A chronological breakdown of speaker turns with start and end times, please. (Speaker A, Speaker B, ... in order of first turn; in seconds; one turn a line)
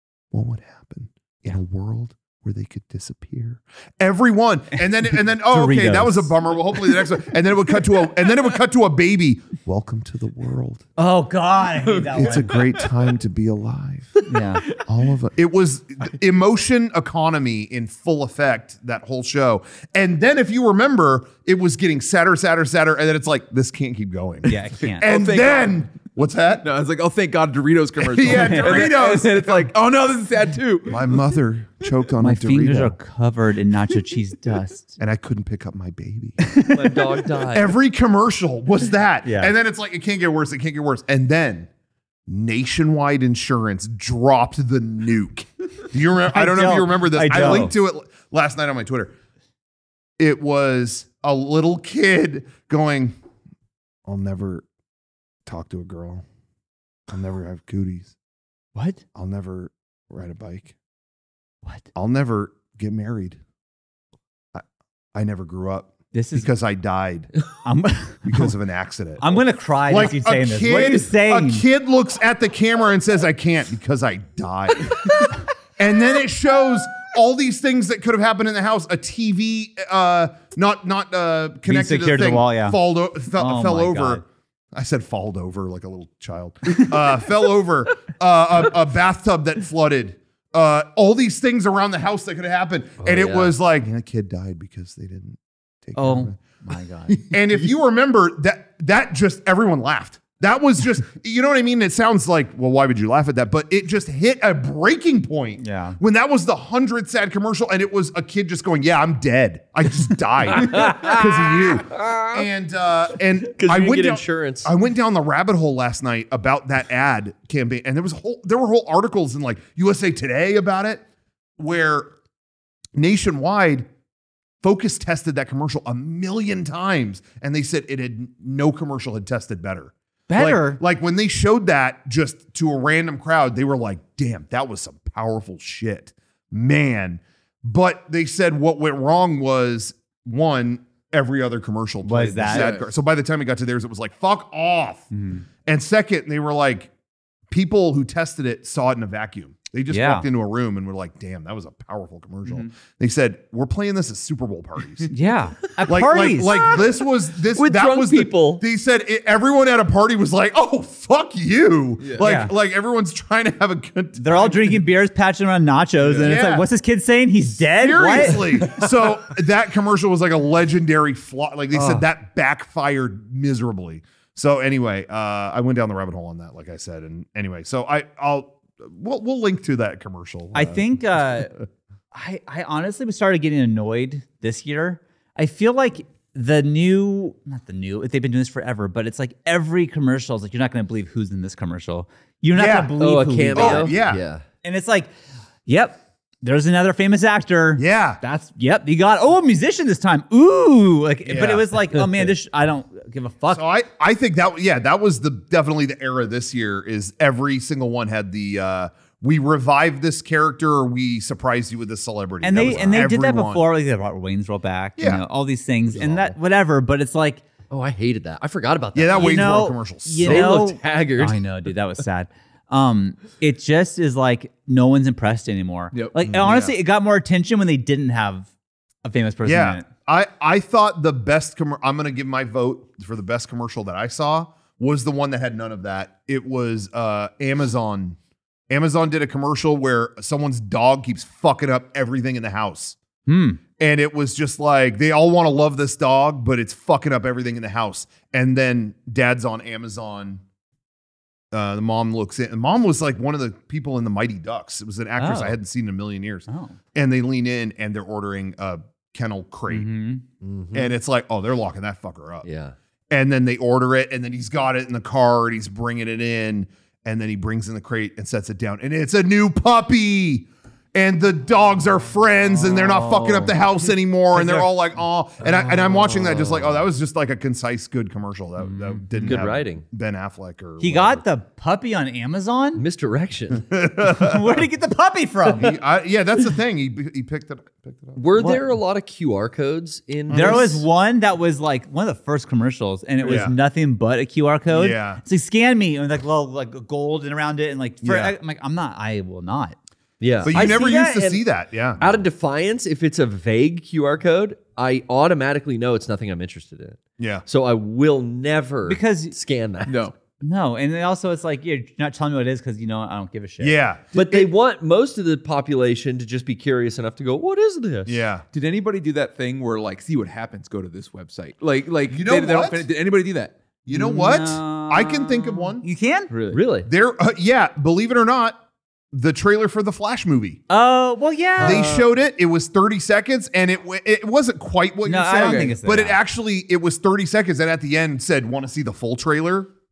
Speaker A: 0.3-10.8
Speaker B: 5.4-6.3
Speaker B: 11.0-12.6
Speaker A: 12.1-26.7
Speaker B: 14.3-14.7
Speaker B: 24.4-25.1
Speaker C: 25.0-25.8
Speaker C: 26.6-31.2
Speaker A: 28.0-29.8
Speaker B: 28.2-28.9
Speaker A: 30.9-33.0
Speaker B: 32.2-35.0
Speaker A: 35.0-36.4
Speaker B: 36.4-37.2
Speaker D: 36.7-37.7
Speaker A: 37.5-41.7
Speaker B: 39.2-39.5
Speaker A: 42.3-49.1
Speaker B: 46.3-47.7
Speaker A: 50.2-53.2
Speaker A: 54.1-54.6
Speaker A: 55.5-56.2
Speaker A: 57.1-58.1
Speaker B: 58.8-59.0
Speaker A: 59.1-60.7
Speaker A: 62.0-63.4
Speaker A: 64.5-67.3
Speaker B: 66.1-66.5
Speaker B: 67.7-68.5
Speaker A: 68.2-69.2
Speaker B: 69.2-71.7
Speaker A: 69.9-96.3
Speaker B: 81.7-82.8
Speaker B: 83.3-84.2
Speaker D: 93.0-93.5
Speaker B: 96.0-97.3
Speaker A: 97.1-121.0
Speaker B: 105.6-106.0
Speaker D: 110.5-112.5
Speaker D: 113.5-114.7
Speaker A: 121.6-122.1
Speaker A: 123.0-123.9
Speaker A: 124.6-145.1
Speaker B: 130.3-130.8
Speaker B: 142.0-142.7
Speaker C: 142.5-142.9
Speaker B: 145.1-145.4
Speaker A: 145.7-146.9
Speaker A: 147.5-155.1
Speaker B: 149.9-150.3
Speaker B: 155.1-156.8
Speaker A: 155.8-164.8
Speaker D: 157.5-158.6
Speaker C: 162.0-162.3
Speaker B: 162.2-162.5
Speaker B: 164.2-168.7
Speaker C: 166.0-166.3
Speaker A: 166.2-166.7
Speaker A: 167.7-180.9
Speaker B: 171.8-172.0
Speaker B: 180.5-181.6
Speaker B: 182.1-194.0
Speaker A: 192.5-192.9
Speaker D: 193.0-194.4
Speaker A: 193.6-194.2
Speaker B: 194.6-195.1
Speaker B: 195.7-203.6
Speaker A: 197.8-198.2
Speaker A: 201.3-201.7
Speaker A: 203.5-213.6
Speaker B: 212.4-217.4
Speaker A: 215.0-215.2
Speaker D: 217.7-219.7
Speaker A: 218.9-220.5
Speaker B: 219.1-228.5
Speaker D: 220.2-221.4
Speaker A: 226.3-226.7
Speaker B: 229.1-229.9
Speaker A: 229.4-238.2
Speaker A: 238.7-243.0
Speaker B: 243.3-243.6
Speaker A: 243.8-250.4
Speaker A: 251.5-259.9
Speaker B: 255.2-255.6
Speaker B: 256.5-256.8
Speaker B: 259.7-260.2
Speaker D: 260.4-260.9
Speaker A: 260.7-262.5
Speaker D: 262.4-262.7
Speaker A: 263.1-281.2
Speaker B: 272.5-274.7
Speaker D: 275.6-276.8
Speaker B: 278.7-279.4
Speaker D: 279.2-279.8
Speaker B: 280.8-282.8
Speaker D: 282.8-283.7
Speaker A: 283.7-284.6
Speaker B: 284.0-285.8
Speaker A: 285.5-288.2
Speaker D: 288.2-290.8
Speaker B: 288.4-288.6
Speaker A: 290.3-290.7
Speaker B: 290.3-299.8
Speaker A: 293.2-293.5
Speaker A: 294.7-295.2
Speaker A: 298.0-298.3
Speaker D: 300.2-301.4
Speaker A: 300.5-302.2
Speaker D: 302.0-310.1
Speaker A: 307.2-307.4
Speaker B: 308.9-309.4
Speaker C: 309.9-310.1
Speaker B: 310.4-313.7
Speaker A: 313.6-314.5
Speaker D: 314.1-318.2
Speaker A: 318.1-318.5
Speaker C: 318.5-323.6
Speaker A: 322.1-322.9
Speaker A: 323.9-325.9
Speaker B: 323.9-326.6
Speaker D: 326.5-326.9
Speaker A: 326.9-328.6
Speaker A: 329.1-330.6
Speaker B: 330.7-332.0
Speaker A: 331.6-339.7
Speaker C: 331.6-332.0
Speaker B: 335.1-336.2
Speaker C: 335.4-335.7